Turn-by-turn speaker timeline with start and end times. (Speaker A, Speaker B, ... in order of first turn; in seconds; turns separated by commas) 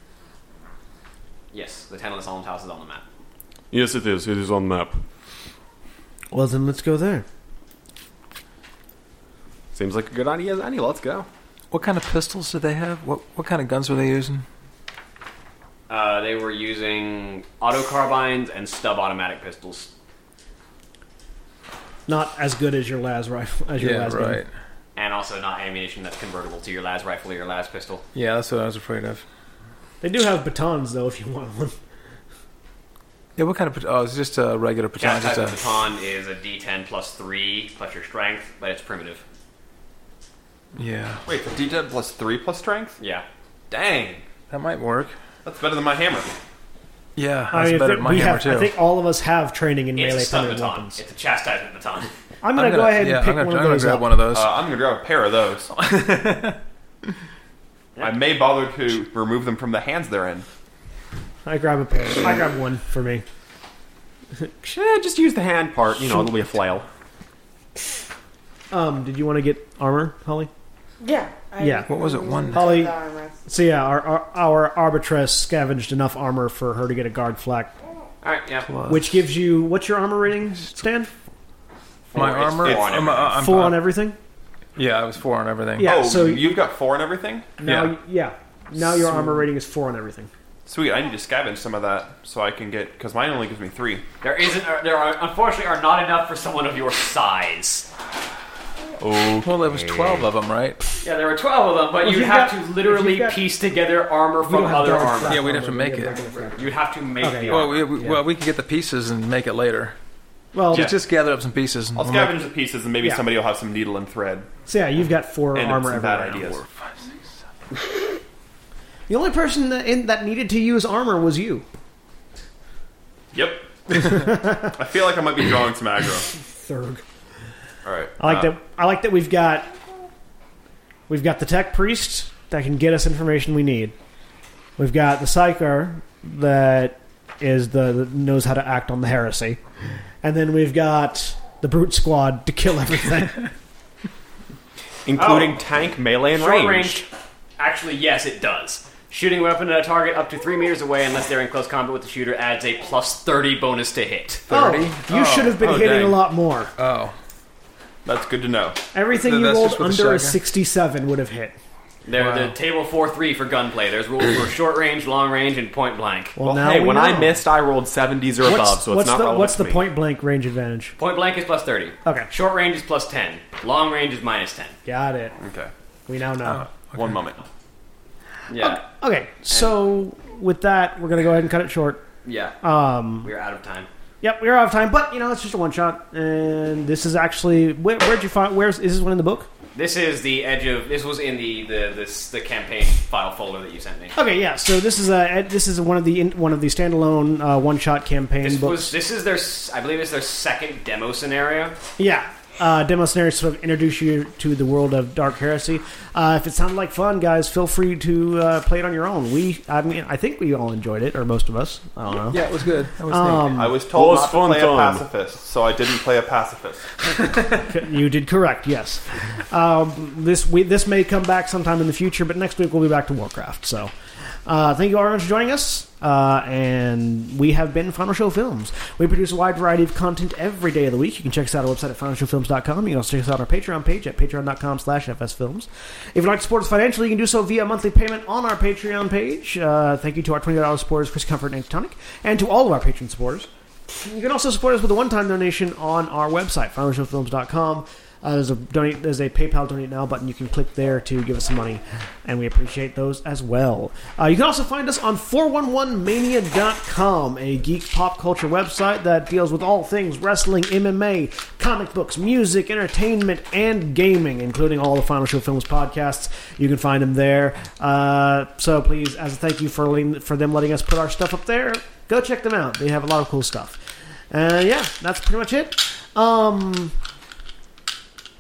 Speaker A: 1.5-3.0, Speaker B: 3.7-5.0, Speaker C: 6.3-7.3, Speaker B: 9.7-11.3, Speaker D: 11.7-14.5, Speaker A: 15.9-19.9, Speaker C: 22.1-24.4, Speaker D: 23.8-24.5, Speaker A: 25.0-28.0, Speaker D: 28.1-29.2, Speaker C: 30.0-31.8, Speaker D: 33.4-35.6, Speaker A: 35.0-39.2, Speaker D: 40.8-41.2, Speaker E: 41.2-43.0, Speaker A: 43.0-43.2, Speaker E: 43.7-44.3, Speaker D: 44.5-45.2, Speaker E: 45.5-46.3, Speaker D: 47.2-48.7, Speaker C: 47.5-51.0, Speaker A: 50.0-52.1, Speaker C: 52.4-54.2, Speaker D: 52.5-54.5, Speaker E: 54.3-55.7, Speaker D: 55.7-56.6, Speaker E: 58.0-60.5, Speaker C: 61.5-63.2, Speaker B: 64.6-66.9, Speaker C: 68.7-70.5, Speaker F: 71.0-73.4, Speaker C: 71.6-71.9, Speaker D: 71.9-72.8, Speaker C: 72.5-72.9, Speaker C: 73.5-77.7, Speaker A: 78.2-78.7, Speaker D: 78.7-79.1, Speaker C: 78.9-81.1, Speaker A: 82.1-83.3, Speaker D: 82.2-83.9, Speaker E: 82.6-83.2, Speaker C: 83.3-84.2, Speaker D: 84.8-85.9, Speaker C: 85.8-86.5, Speaker E: 85.8-87.5, Speaker C: 87.6-90.3, Speaker D: 87.7-87.9, Speaker E: 90.7-94.0, Speaker A: 94.2-97.9, Speaker E: 99.0-100.1, Speaker D: 99.4-100.8, Speaker A: 101.0-105.4, Speaker C: 102.0-103.4, Speaker C: 104.4-108.2, Speaker D: 105.3-106.2, Speaker A: 106.6-107.9, Speaker D: 107.5-110.0, Speaker C: 110.5-110.9, Speaker D: 110.7-112.4, Speaker E: 112.0-114.5, Speaker C: 114.7-116.6, Speaker E: 115.5-116.7, Speaker D: 116.8-117.1, Speaker C: 119.1-121.7, Speaker E: 123.3-126.3, Speaker C: 124.0-124.7, Speaker C: 126.4-127.0, Speaker E: 127.8-128.5, Speaker C: 128.2-129.7, Speaker C: 131.1-133.9, Speaker C: 134.8-139.6, Speaker C: 140.2-143.5, Speaker B: 145.1-147.1, Speaker A: 145.2-145.6, Speaker A: 146.3-147.1, Speaker A: 147.6-154.4, Speaker D: 154.5-156.2, Speaker C: 154.5-156.7, Speaker D: 156.8-157.2, Speaker E: 158.1-158.8, Speaker C: 158.9-161.6, Speaker D: 159.2-160.4, Speaker A: 162.1-166.4, Speaker D: 162.1-162.5, Speaker C: 166.4-167.4, Speaker B: 166.4-169.8, Speaker C: 168.4-170.9, Speaker A: 171.0-174.8, Speaker C: 174.9-175.3, Speaker E: 175.4-175.7, Speaker C: 176.1-176.6, Speaker D: 176.5-177.0, Speaker E: 176.6-177.5, Speaker A: 178.5-178.9, Speaker C: 178.6-182.1, Speaker A: 179.5-179.8, Speaker A: 182.2-182.6, Speaker C: 182.6-183.3, Speaker A: 183.2-183.9, Speaker C: 184.2-189.5, Speaker A: 189.7-194.2, Speaker C: 194.2-198.9, Speaker A: 198.4-201.8, Speaker C: 202.0-213.8, Speaker D: 212.3-213.6, Speaker E: 213.5-216.9, Speaker B: 213.8-215.1, Speaker C: 217.5-223.9, Speaker C: 224.5-276.9